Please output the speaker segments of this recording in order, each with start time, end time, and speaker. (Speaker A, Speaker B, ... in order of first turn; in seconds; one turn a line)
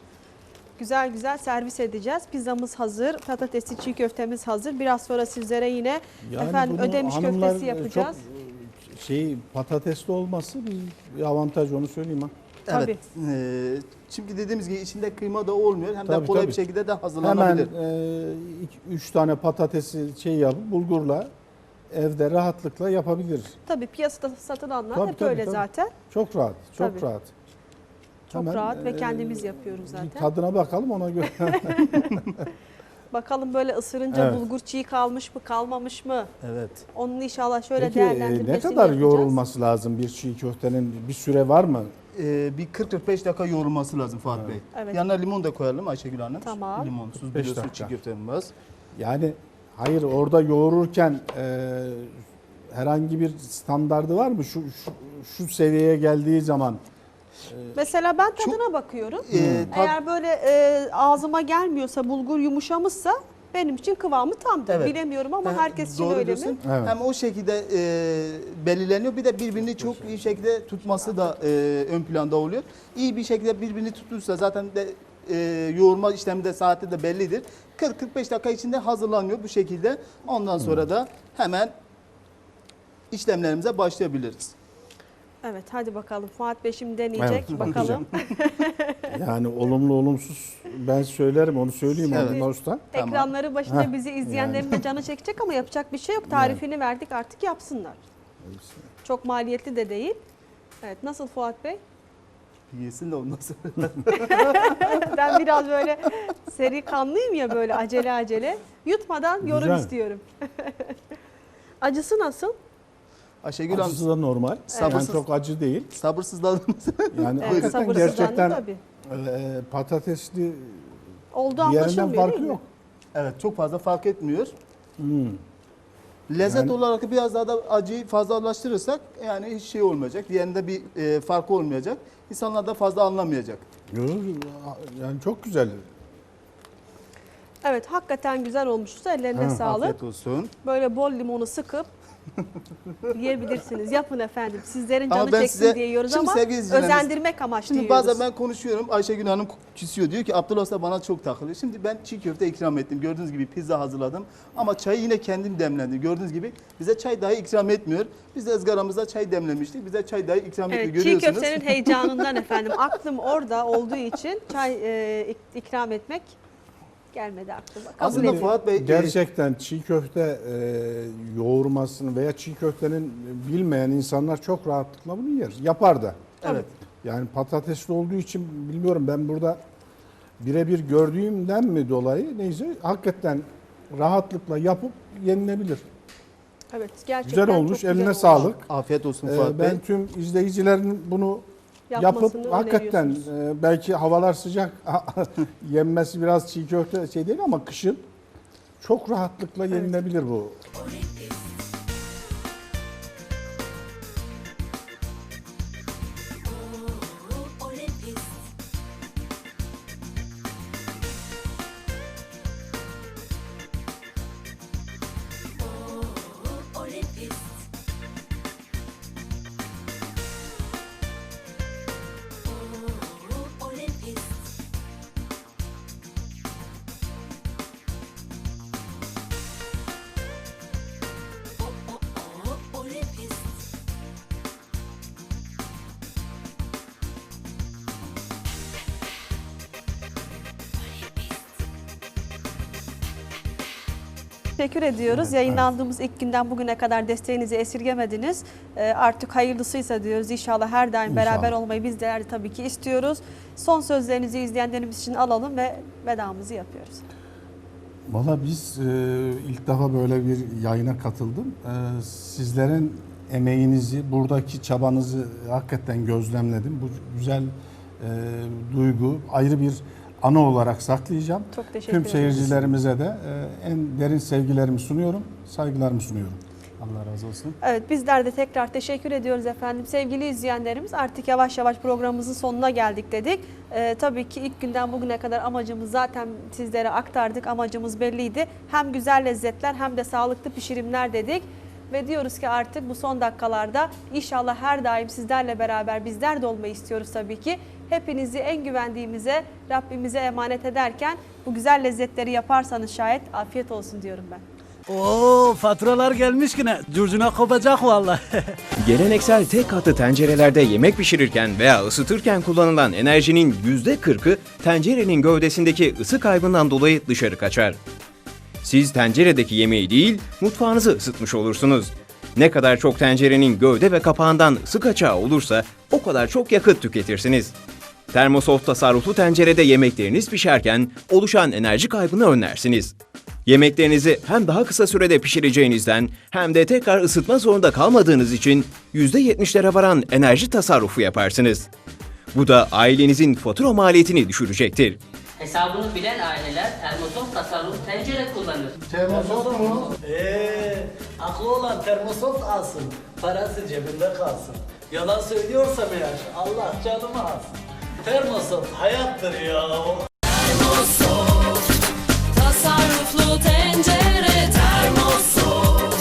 Speaker A: 0.8-8.2
Speaker B: 6.2-12.3
Speaker A: 12.7-13.0
Speaker C: 12.7-17.7
Speaker B: 16.1-16.6
Speaker B: 17.2-21.3
Speaker B: 21.9-23.6
Speaker A: 23.7-25.9
Speaker B: 24.9-27.3
Speaker A: 26.8-27.0
Speaker A: 28.3-30.3
Speaker B: 28.3-32.1
Speaker A: 31.5-32.0
Speaker A: 33.1-36.3
Speaker B: 34.1-34.5
Speaker C: 36.4-36.8
Speaker A: 36.9-39.4
Speaker B: 37.8-41.9
Speaker C: 42.1-48.5
Speaker A: 44.7-45.0
Speaker A: 46.4-46.9
Speaker B: 47.2-48.0
Speaker B: 49.0-56.8
Speaker B: 57.5-57.8
Speaker A: 57.7-66.6
Speaker C: 59.3-60.0
Speaker B: 59.3-59.7
Speaker C: 64.7-81.7
Speaker B: 66.6-67.0
Speaker B: 69.6-70.4
Speaker B: 80.6-80.9
Speaker C: 83.1-84.5
Speaker A: 85.4-89.0
Speaker B: 87.2-88.0
Speaker C: 87.5-88.0
Speaker B: 89.1-92.9
Speaker C: 92.0-92.4
Speaker A: 92.1-98.0
Speaker C: 93.0-93.3
Speaker B: 93.7-94.7
Speaker B: 96.3-96.6
Speaker B: 98.4-98.8
Speaker A: 99.0-100.2
Speaker A: 100.8-101.8
Speaker C: 102.7-104.6
Speaker A: 104.1-111.0
Speaker B: 109.4-109.9
Speaker A: 111.8-112.5
Speaker C: 113.4-114.0
Speaker B: 113.7-115.9
Speaker C: 114.7-115.2
Speaker A: 114.7-115.0
Speaker C: 115.9-118.3
Speaker B: 117.1-120.9
Speaker A: 117.4-118.8
Speaker A: 121.3-122.6
Speaker B: 121.6-122.7
Speaker C: 123.1-124.5
Speaker B: 125.0-125.4
Speaker C: 126.3-133.6
Speaker B: 126.4-126.8
Speaker B: 133.9-135.9
Speaker A: 137.6-139.9
Speaker B: 139.3-139.6
Speaker C: 139.6-140.5
Speaker A: 140.6-141.9
Speaker A: 143.1-148.2
Speaker C: 145.1-147.1
Speaker C: 147.7-162.3
Speaker A: 160.7-166.3
Speaker A: 167.1-168.5
Speaker C: 168.0-169.2
Speaker B: 168.0-176.2
Speaker C: 176.4-176.7
Speaker B: 177.0-179.6
Speaker B: 180.4-185.8
Speaker A: 186.7-188.5
Speaker B: 187.2-188.7
Speaker C: 188.6-189.8
Speaker B: 189.2-198.1
Speaker A: 191.9-193.3
Speaker B: 198.8-200.6
Speaker A: 199.7-200.0
Speaker A: 244.6-257.0
Speaker B: 245.1-245.6
Speaker B: 251.1-251.5
Speaker B: 258.1-276.4
Speaker A: 271.5-272.3
Speaker C: 272.2-272.8
Speaker C: 276.8-277.6
Speaker A: 277.6-304.4
Speaker D: 304.9-308.5
Speaker E: 308.8-317.8
Speaker E: 318.6-327.5
Speaker E: 328.1-332.9
Speaker E: 333.5-341.7
Speaker E: 342.3-345.0
Speaker F: 345.4-348.8
Speaker B: 348.8-349.9
Speaker D: 349.1-360.1
Speaker F: 349.7-349.9
Speaker F: 360.4-361.6
Speaker D: 360.7-361.1
Speaker F: 362.3-365.6
Speaker D: 364.6-365.5